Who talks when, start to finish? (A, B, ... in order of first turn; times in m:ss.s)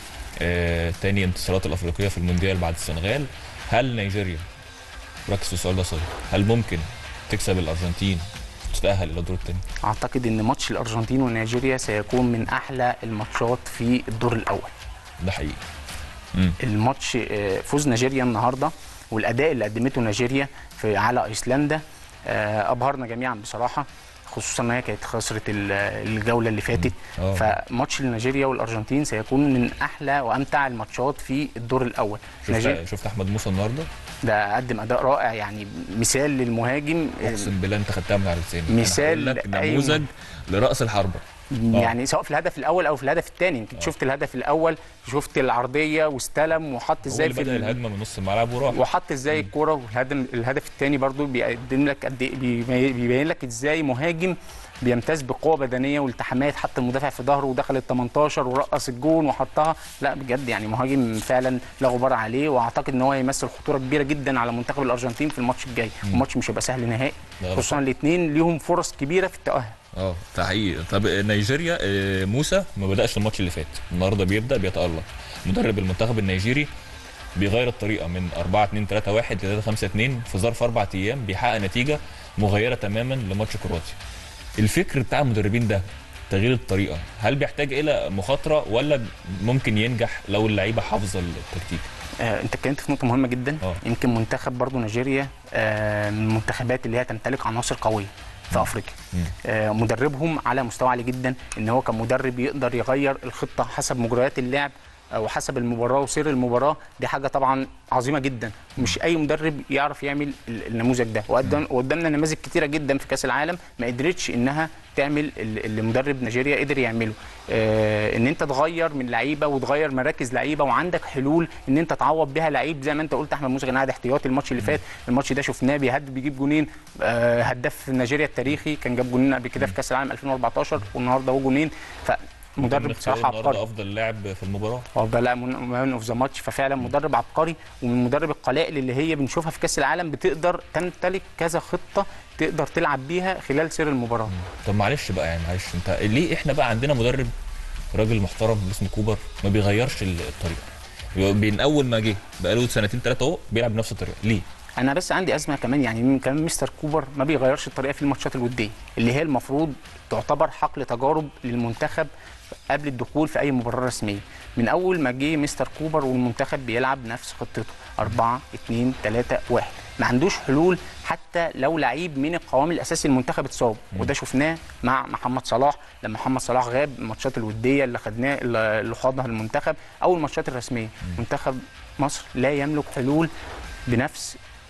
0:00.4-0:04.4 A
0:05.3-0:09.6 A
0:09.8-0:14.7 B
0:15.2-0:15.6 A
0:16.6-0:32.8 B
0:26.8-0:27.5 A
0:32.4-0:33.9 A
0:34.2-0:37.5 B
0:37.2-0:41.9 A
0:38.7-0:40.1 B
0:41.5-0:47.8 B
0:47.0-0:48.8 A
0:48.7-1:09.8 B
1:07.4-1:07.8 A
1:09.9-1:16.7 A
1:17.4-1:24.0 A
1:24.6-1:31.9 A
1:32.2-2:13.6 B
1:38.5-1:39.3 A
2:12.6-2:14.9 A
2:15.0-2:24.3 B
2:24.3-2:27.3 A
2:27.9-2:34.4 A
2:34.8-2:42.1 B
2:42.7-3:03.3 B
3:03.9-3:04.4 B